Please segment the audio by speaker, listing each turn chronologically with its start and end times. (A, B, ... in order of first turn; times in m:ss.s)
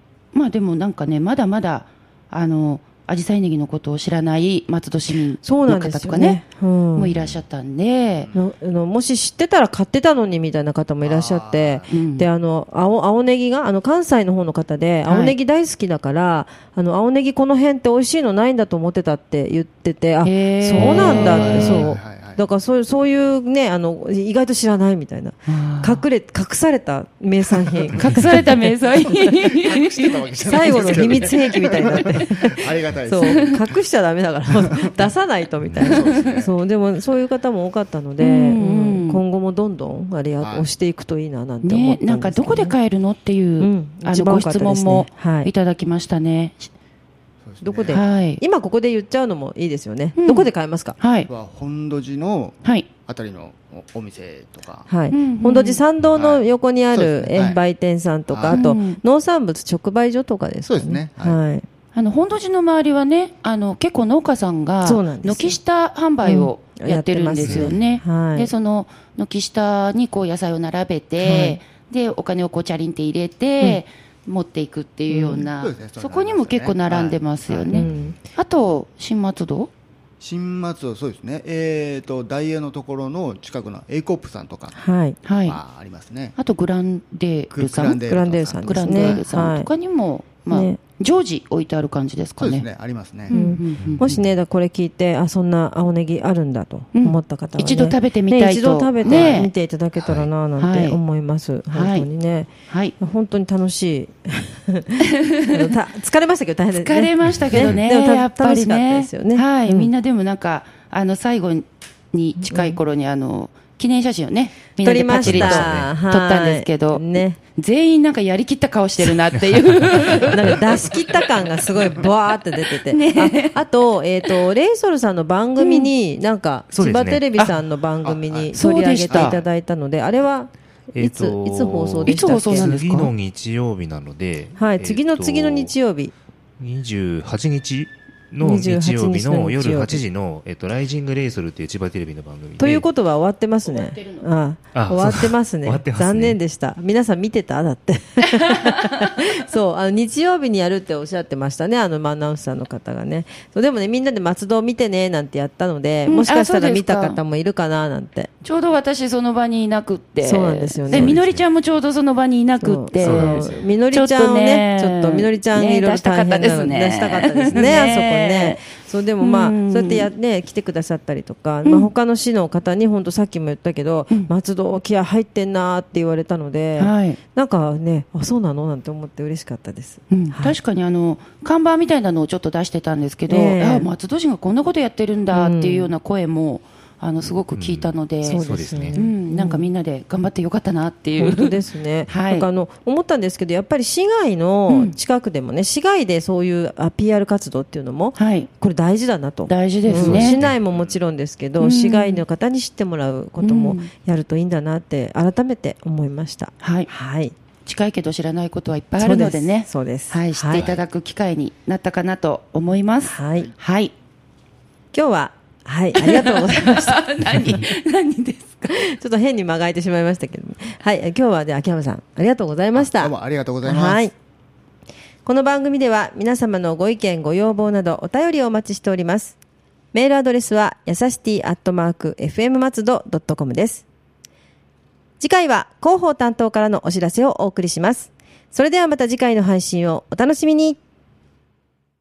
0:00.3-0:06.4 A
0:05.4-0:07.1 B
0:07.0-0:08.3 A
0:07.1-0:07.4 C
0:08.3-0:28.5 B
0:11.0-0:12.0 D
0:11.9-0:12.3 A
0:15.1-0:15.4 A
0:20.2-0:21.9 A
0:20.8-0:22.5 D
0:25.5-0:26.0 A
0:28.0-0:31.8 A
0:29.6-0:33.8 D
0:30.4-0:42.8 B
0:34.6-0:35.0 D
0:35.7-0:36.0 C
0:35.8-0:36.5 D
0:38.2-0:39.2 A
0:40.4-0:40.7 D
0:41.6-0:46.7 A
0:43.6-0:45.5 B
0:47.4-0:48.0 D
0:47.6-0:51.0 B
0:47.9-0:48.4 A
0:50.2-0:51.3 A
0:51.3-0:54.9 D
0:54.9-1:01.6 B
0:55.1-0:55.8 A
0:56.0-0:57.6 D
0:58.3-0:58.6 D
0:58.5-0:59.0 A
1:00.6-1:01.4 D
1:01.9-1:19.7 A
1:04.8-1:05.6 B
1:06.2-1:08.5 B
1:07.4-1:07.8 C
1:11.2-1:11.6 B
1:15.1-1:15.5 B
1:15.6-1:18.0 D
1:17.7-1:18.2 B
1:20.2-1:24.8 D
1:24.8-1:25.2 B
1:25.2-1:25.6 A
1:25.5-1:26.4 D
1:26.4-1:28.0 A
1:27.5-1:29.2 D
1:28.1-1:29.7 B
1:28.6-1:32.7 A
1:30.5-1:30.8 B
1:32.4-1:33.3 D
1:33.3-1:34.2 A
1:33.3-1:49.9 B
1:33.8-1:34.1 C
1:37.0-1:39.5 A
1:39.0-1:39.4 C
1:40.0-1:40.3 C
1:40.6-1:41.0 A
1:41.7-1:42.1 A
1:42.7-1:43.0 A
1:46.7-2:01.0 A
1:47.3-1:47.8 C
1:52.5-1:52.8 B
1:54.8-1:57.4 B
1:55.2-1:55.9 C
2:00.2-2:12.7 B
2:02.7-2:03.6 A
2:05.6-2:05.9 A
2:06.7-2:07.3 C
2:08.0-2:08.5 D
2:08.5-2:09.4 A
2:09.1-2:09.4 D
2:11.0-2:15.8 C
2:12.0-2:13.1 A
2:14.6-2:16.1 B
2:16.6-2:22.9 C
2:18.4-2:20.0 B
2:22.6-2:38.3 B
2:23.6-2:24.3 A
2:24.7-2:26.4 C
2:36.1-2:37.2 A
2:38.4-2:48.6 A
2:40.2-2:41.2 B
2:40.9-2:41.4 C
2:42.6-3:00.6 B
2:43.0-2:43.6 C
2:47.5-2:47.8 C
2:49.2-2:50.1 A
2:51.6-2:51.9 A
2:56.8-2:57.2 A
3:00.1-3:08.4 A
3:03.3-3:03.9 B
3:05.3-3:05.9 B
3:07.5-3:09.0 C
3:08.2-3:09.7 B
3:08.9-3:11.6 A
3:11.2-3:27.3 B
3:12.1-3:12.5 A
3:14.7-3:15.0 A
3:18.2-3:18.5 A
3:19.5-3:20.4 A
3:19.9-3:21.0 C
3:21.6-3:22.2 A
3:23.4-3:23.9 A
3:26.6-3:26.9 A
3:27.6-3:33.9 A
3:29.0-3:30.7 B
3:30.6-3:30.8 C
3:33.0-3:33.5 B
3:34.9-3:37.5 B
3:36.0-3:38.8 A
3:38.7-3:44.1 B
3:42.7-3:44.0 D
3:45.2-3:49.4 B
3:49.9-3:53.8 B
3:55.2-4:00.8 B